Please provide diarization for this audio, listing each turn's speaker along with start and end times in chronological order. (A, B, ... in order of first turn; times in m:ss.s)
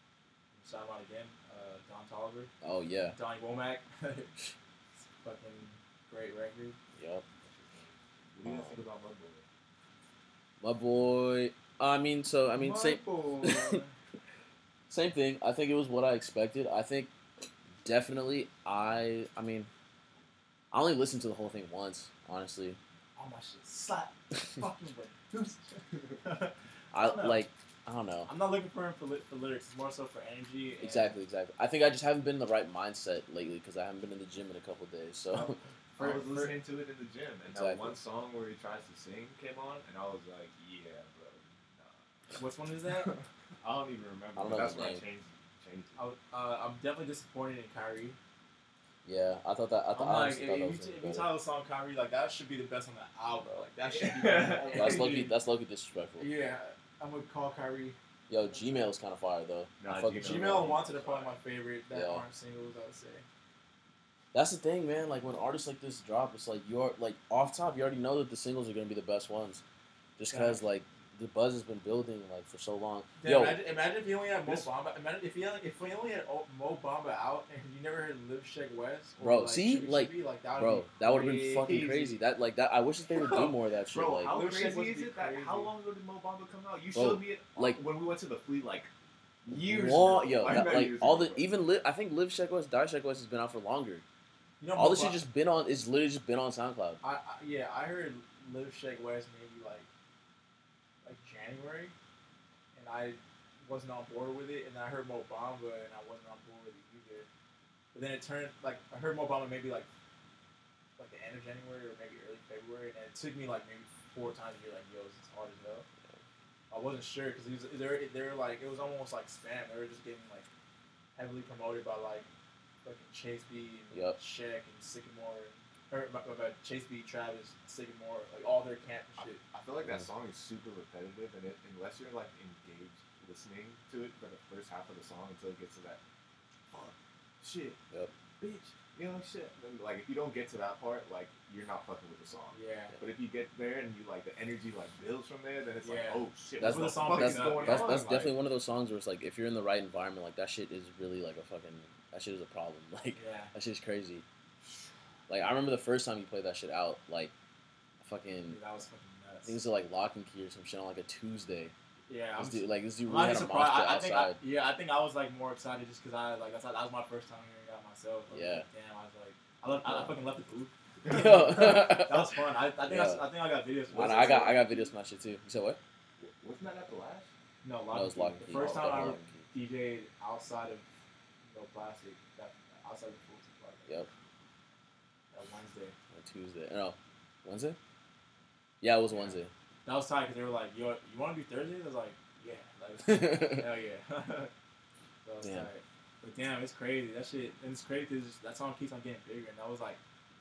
0:00.5-0:02.5 A
0:02.6-0:03.2 B
0:03.1-0:04.3 A
0:05.0-0:06.8 A
0:06.9-0:07.2 B
0:07.4-0:09.5 C
0:08.4-0:08.9 B
0:10.6-0:13.8 B
0:12.6-0:13.9 A
0:14.9-0:17.1 B
0:17.8-0:19.7 B
0:20.7-0:22.8 B
0:23.2-0:27.4 A
0:26.9-0:28.3 B
0:28.3-0:31.1 A
0:30.8-0:35.6 B
0:35.3-0:42.0 C
0:35.9-0:36.6 A
0:37.5-0:38.0 B
0:42.3-0:43.1 A
0:43.0-0:46.0 C
0:44.4-0:45.0 B
0:46.0-0:48.2 A
0:49.0-0:51.3 B
0:49.9-0:55.3 A
0:53.9-0:55.3 C
0:54.7-0:56.3 B
0:56.2-0:58.0 A
0:58.3-1:00.8 B
0:58.6-0:58.8 A
0:59.8-1:01.3 C
1:00.2-1:03.2 A
1:01.9-1:02.2 B
1:04.3-1:09.6 B
1:10.2-1:13.6 B
1:10.3-1:10.6 A
1:13.2-1:22.1 A
1:19.2-1:24.3 B
1:23.2-1:28.9 C
1:24.3-1:25.7 A
1:26.9-1:27.8 B
1:29.4-1:31.5 C
1:29.5-1:34.0 B
1:34.6-1:35.2 A
1:34.7-1:37.0 B
1:37.0-1:39.9 A
1:41.0-1:41.9 A
1:42.7-1:47.3 A
1:47.9-1:49.9 A
1:51.0-1:55.9 A
1:56.7-2:00.5 A
2:01.2-2:02.3 A
2:02.8-2:09.4 A
2:03.9-2:04.2 B
2:09.2-2:16.0 C
2:16.7-2:17.8 C
2:18.4-2:28.3 C
2:22.5-2:23.0 A
2:25.8-2:28.3 A
2:26.6-2:34.2 B
2:33.1-2:33.5 A
2:34.6-2:34.9 C
2:35.3-2:37.3 B
2:38.0-2:38.6 B
2:38.5-2:39.6 A
2:39.4-2:41.7 B
2:42.1-2:54.9 A
2:42.4-2:44.4 B
2:48.3-2:48.7 B
2:49.8-2:50.1 B
2:51.0-2:51.8 C
2:51.1-2:53.3 B
2:53.9-2:55.8 B
2:56.2-2:57.3 C
2:57.6-3:00.8 A
2:57.9-2:59.5 B
3:01.4-3:03.9 A
3:05.3-3:06.0 A
3:06.1-3:07.8 B
3:08.8-3:09.5 B
3:09.8-3:14.5 A
3:13.0-3:13.7 B
3:15.2-3:20.0 A
3:15.4-3:15.7 B